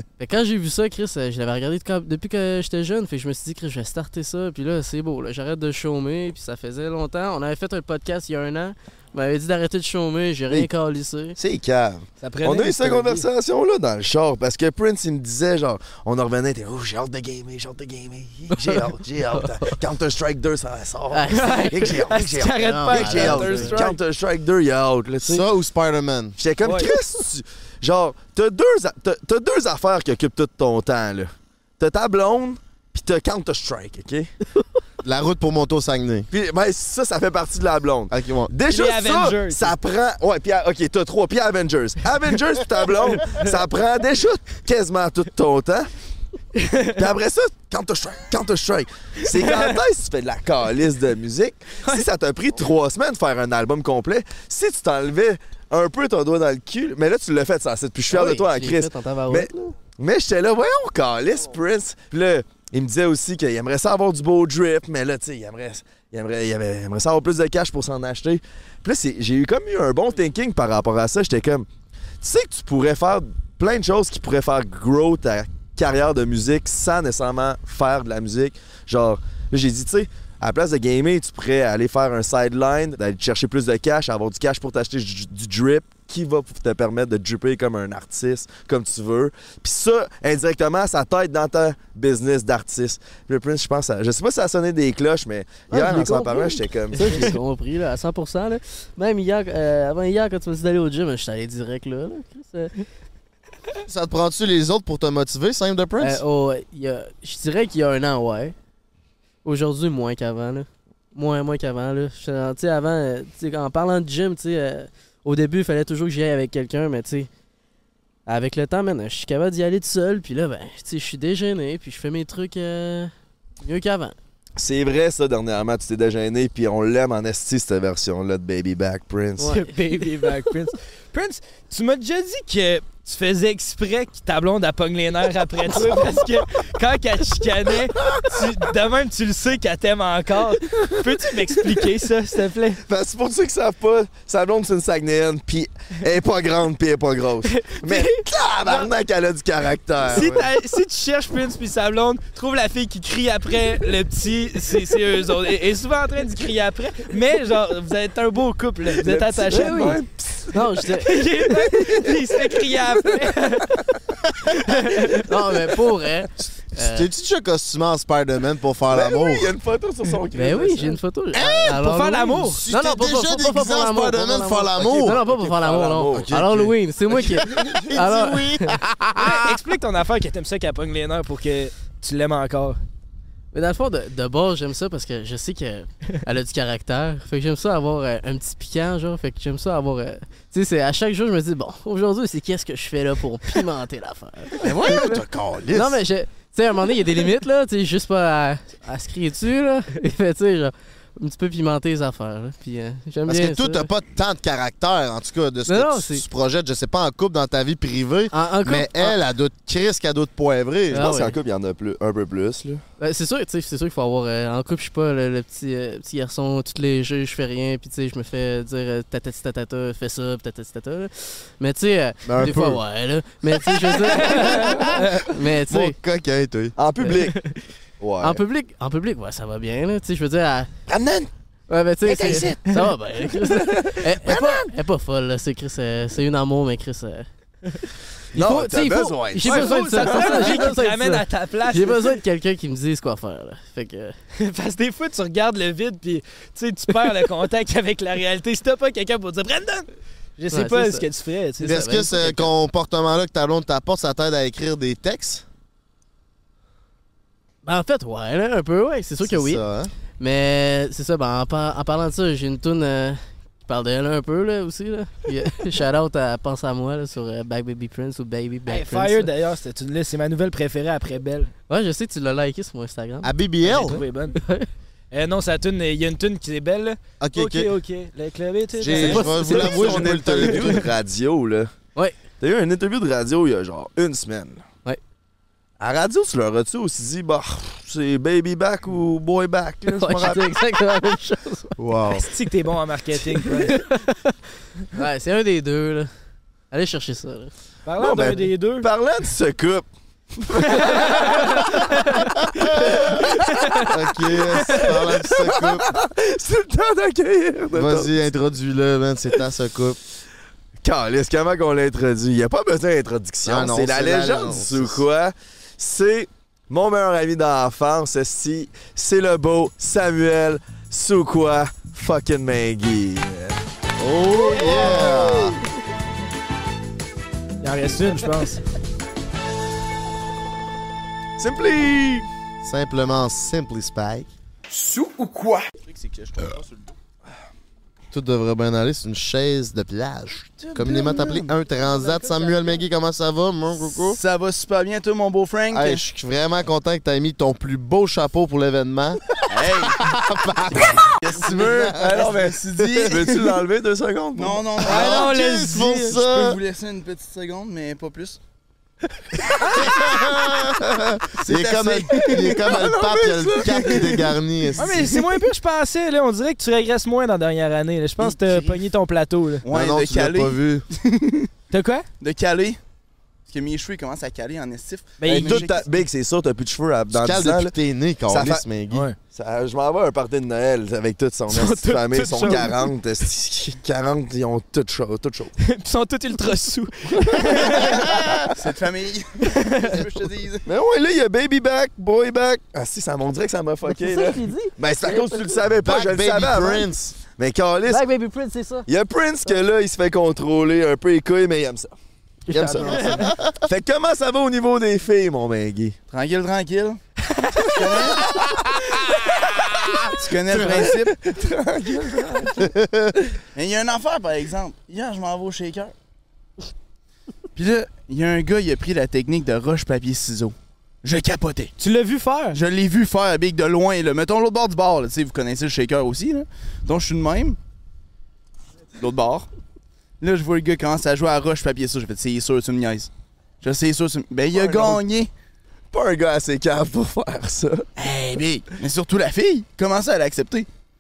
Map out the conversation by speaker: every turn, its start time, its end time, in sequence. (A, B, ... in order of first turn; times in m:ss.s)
0:00.2-0:11.4 A
0:11.4-0:25.5 B
0:12.2-0:13.3 C
0:18.5-0:18.8 A
0:19.4-0:19.7 A
0:21.1-0:23.8 A
0:21.3-0:24.0 C
0:25.2-0:26.4 D
0:26.4-0:34.3 B
0:26.6-0:26.9 C
0:35.0-0:36.3 D
0:36.3-0:45.9 B
0:38.1-0:38.5 D
0:38.7-0:39.7 C
0:46.6-0:46.9 C
0:46.9-1:11.7 B
0:49.4-0:49.7 C
0:58.1-0:59.8 A
1:12.2-1:37.4 B
1:35.7-1:42.8 A
1:43.9-1:46.2 D
1:46.0-1:48.5 A
1:49.4-1:57.3 A
1:58.3-2:03.1 A
2:03.6-2:04.2 A
2:04.6-2:09.6 B
2:09.4-2:10.2 A
2:09.4-2:22.8 C
2:22.9-2:30.4 B
2:27.5-2:28.9 C
2:30.1-2:30.5 D
2:30.1-2:40.0 C
2:39.0-2:40.6 B
2:39.5-2:40.0 A
2:40.5-2:41.7 A
2:40.9-2:43.8 C
2:44.5-2:45.3 C
2:45.2-2:47.1 A
2:46.8-2:49.5 D
2:48.9-2:51.0 B
2:50.3-2:58.8 A
2:51.3-2:51.9 D
2:51.8-2:52.6 C
2:52.4-2:55.2 D
2:55.0-2:58.0 B
2:57.3-2:59.5 D
2:59.2-3:02.8 C
3:03.5-3:15.2 A
3:14.6-3:16.0 D
3:15.7-3:23.9 A
3:23.3-3:31.1 D
3:25.7-3:26.2 A
3:28.3-3:29.2 A
3:30.9-3:32.8 B
3:30.9-3:31.4 A
3:33.0-3:46.0 A
3:42.3-3:42.8 D
3:44.2-3:45.2 C
3:45.6-3:46.8 D
3:46.8-3:47.4 B
3:47.2-3:47.5 A
3:48.0-3:48.4 B
3:48.2-3:50.7 A
3:50.9-3:51.3 B
3:51.7-3:57.3 A
3:52.0-3:52.8 B
3:53.4-3:54.7 B
3:58.3-4:00.7 B
3:58.3-4:04.2 A
3:59.4-4:02.2 C
4:04.4-4:09.9 C
4:10.4-4:11.9 C
4:10.5-4:11.1 A
4:11.6-4:12.5 A
4:11.6-4:15.4 D
4:17.6-4:19.6 A
4:19.2-4:19.9 D
4:20.2-4:29.3 A
4:28.7-4:31.5 C
4:31.7-4:33.3 A
4:33.2-4:34.0 D
4:33.6-4:34.4 C
4:33.9-4:34.7 A
4:35.1-4:39.7 C
4:37.2-4:37.7 D
4:38.8-4:40.9 D
4:38.9-4:41.7 B
4:39.0-4:40.1 A
4:42.4-4:44.6 B
4:45.8-4:50.6 B
4:49.8-4:51.7 A
4:51.8-4:52.2 D
4:52.1-4:53.8 C
4:53.4-4:54.4 A
4:54.9-4:56.1 A
4:56.7-4:57.5 A
4:57.9-4:58.9 C
4:58.0-5:01.8 B
5:00.8-5:02.2 C
5:02.6-5:03.3 D
5:03.4-5:03.9 C
5:03.9-5:05.9 D
5:04.7-5:08.1 B
5:07.7-5:10.0 D
5:10.8-5:23.6 B
5:13.4-5:15.0 D
5:24.0-5:25.6 D
5:24.5-5:25.0 C
5:27.6-5:28.6 C
5:31.4-5:32.3 B
5:32.6-5:34.3 D
5:35.8-5:36.9 E
5:38.1-5:44.2 D
5:40.6-5:41.5 E
5:43.9-5:46.0 E
5:45.7-5:53.1 D
5:49.5-5:50.0 E
5:51.2-5:53.6 E
5:51.5-5:54.7 B
5:54.4-5:55.3 E
5:54.8-5:56.2 C
5:54.8-5:56.6 D
5:56.1-5:58.4 E
5:59.7-6:05.1 D
6:01.4-6:02.6 E
6:02.6-6:04.3 B
6:04.8-6:09.6 C
6:08.2-6:08.8 E
6:09.6-6:11.5 E
6:09.7-6:10.8 D
6:11.7-6:12.1 C
6:12.2-6:12.8 E
6:13.5-6:15.9 E
6:15.2-6:15.7 C
6:15.3-6:17.8 B
6:17.1-6:19.1 D
6:18.3-6:18.6 B
6:19.3-6:25.5 B
6:21.5-6:22.9 C
6:25.6-6:28.1 C
6:27.2-6:27.7 B
6:28.6-6:30.7 E
6:29.4-6:30.0 C
6:30.7-6:38.0 B
6:33.9-6:35.6 A
6:35.8-6:37.2 D
6:37.9-6:38.9 A
6:38.9-6:41.9 B
6:42.5-6:43.3 A
6:42.5-6:43.5 D
6:42.8-6:43.1 C
6:43.6-6:46.0 B
6:46.1-6:47.0 E
6:47.6-6:48.3 E
6:50.1-6:51.2 E
6:50.5-6:52.7 B
6:52.6-6:53.2 D
6:53.6-6:55.9 E
6:57.6-7:01.7 E
7:01.8-7:02.6 C
7:02.5-7:07.6 E
7:09.0-7:09.5 E
7:10.2-7:13.1 E
7:13.6-7:15.3 E
7:14.5-7:15.0 B
7:15.9-7:17.9 B
7:18.0-7:20.7 E